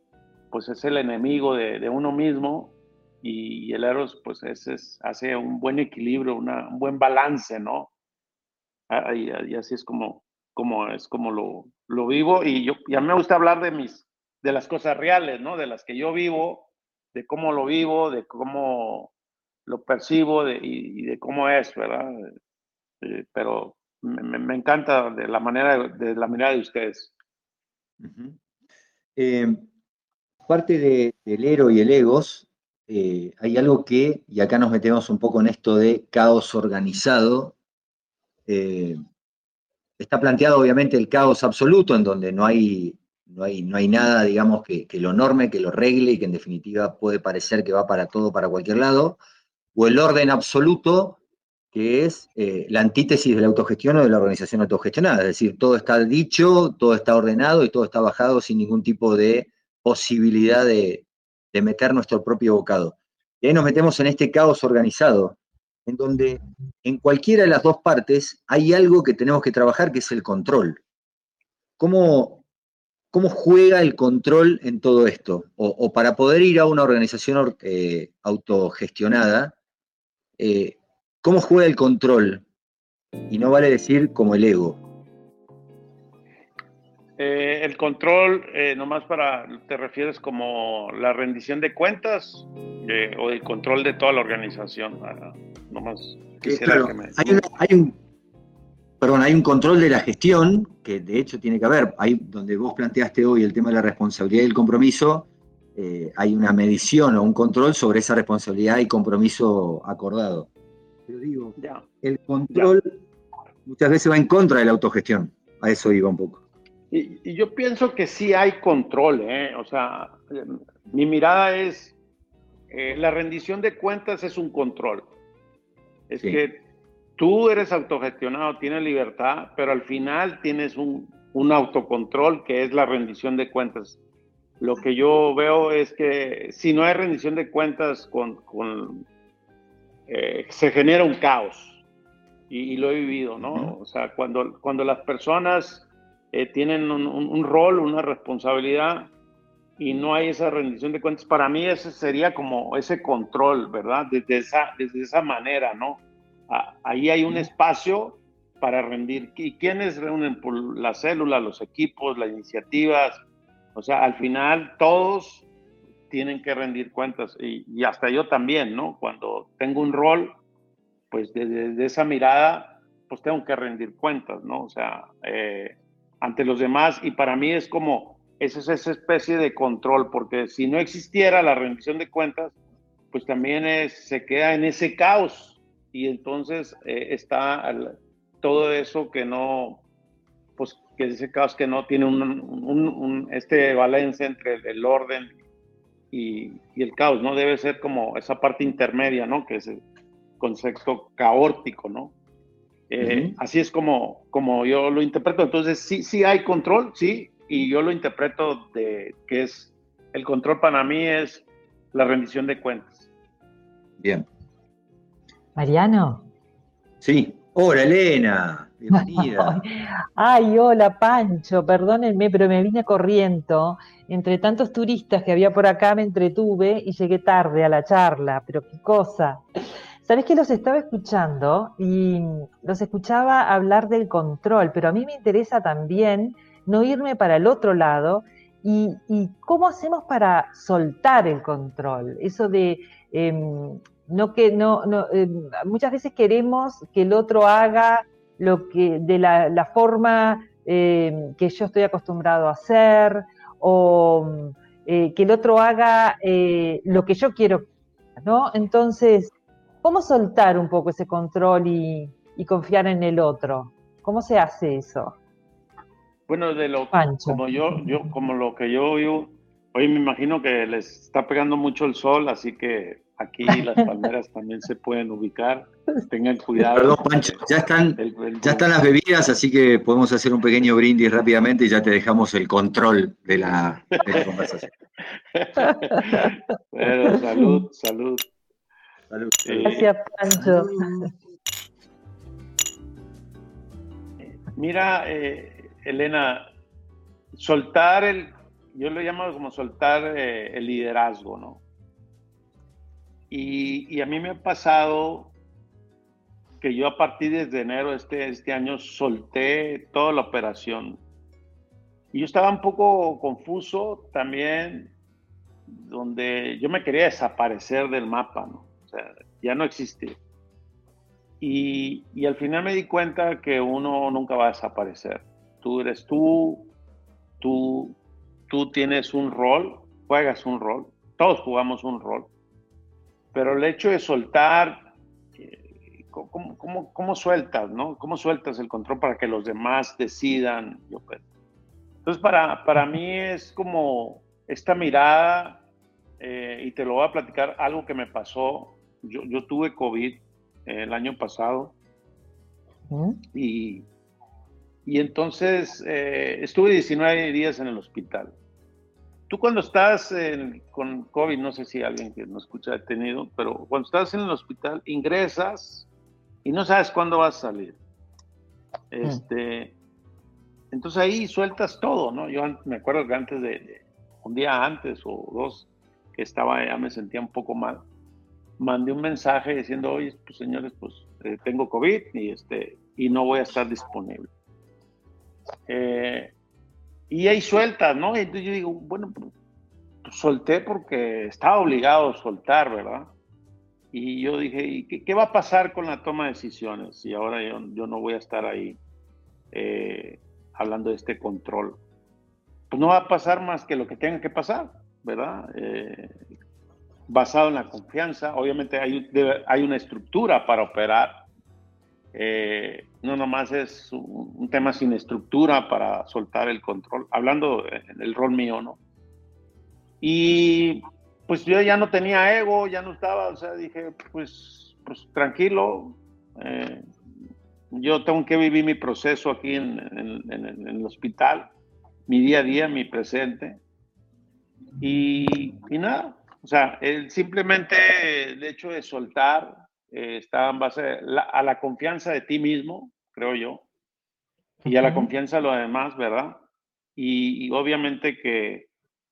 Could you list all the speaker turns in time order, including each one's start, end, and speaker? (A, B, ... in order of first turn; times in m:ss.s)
0:00.5-0:07.9 A
0:08.9-0:19.1 A
0:19.6-0:22.3 A
0:23.0-0:27.1 A
0:28.0-0:28.4 B
0:29.2-0:29.6 B
0:30.5-0:37.5 B
0:38.5-0:39.0 B
0:40.0-0:49.2 B
0:49.7-0:51.2 B
0:51.7-1:10.8 B
1:11.8-1:12.4 B
1:13.1-1:19.5 B
1:20.4-1:22.4 B
1:23.3-1:24.8 B
1:27.2-1:37.4 A
1:36.4-1:38.0 B
1:39.0-1:50.5 B
1:51.1-1:53.0 B
1:51.6-1:51.8 A
1:53.6-1:56.4 B
1:56.9-2:02.0 A
2:02.7-2:05.1 A
2:06.1-2:06.6 A
2:07.2-2:14.0 A
2:14.6-2:19.0 A
2:20.1-2:21.8 A
2:22.5-2:29.1 A
2:23.4-2:23.7 B
2:29.8-2:43.2 A
2:43.7-2:45.5 A
2:46.1-2:50.4 A
2:51.1-3:02.5 A
3:03.1-3:09.8 A
3:10.6-3:15.3 A
3:16.1-3:19.8 A
3:20.4-3:22.1 A
3:22.9-3:33.1 A
3:23.0-3:23.3 B
3:34.0-3:34.2 B
3:35.6-3:36.3 C
3:37.0-3:39.6 B
3:38.9-3:49.4 C
3:50.0-4:25.1 C
4:26.3-4:37.3 A
4:26.9-4:27.8 C
4:36.7-4:44.6 B
4:38.0-4:38.7 A
4:44.0-4:44.3 A
4:45.3-4:48.2 A
4:49.1-4:49.9 B
4:49.4-4:49.8 A
4:49.6-4:51.1 C
4:50.4-4:50.8 B
4:54.5-4:56.4 A
4:57.3-5:01.6 A
5:03.3-5:05.3 A
5:06.6-5:11.0 A
5:12.1-5:14.9 A
5:15.7-5:20.2 A
5:21.4-5:26.7 A
5:27.4-5:28.0 A
5:28.5-5:32.3 A
5:33.3-5:35.6 A
5:36.1-5:41.2 A
5:42.0-5:45.6 A
5:46.2-5:51.7 A
5:52.9-5:53.2 C
5:53.3-5:53.8 A
5:54.8-5:58.3 A
5:59.3-6:05.9 A
6:06.4-6:07.8 A
6:08.9-6:09.7 A
6:10.7-6:17.8 A
6:18.6-6:24.3 A
6:25.7-6:26.3 A
6:27.1-6:29.3 A
6:30.0-6:33.1 A
6:33.9-6:38.8 A
6:39.5-6:41.8 A
6:42.7-6:46.1 A
6:47.1-6:51.2 A
6:52.1-6:58.8 A
7:00.0-7:06.8 A
7:07.7-7:11.5 A
7:12.1-7:13.6 A
7:14.8-7:23.6 A
7:24.6-7:25.1 C
7:24.6-7:26.4 A
7:27.0-7:28.7 A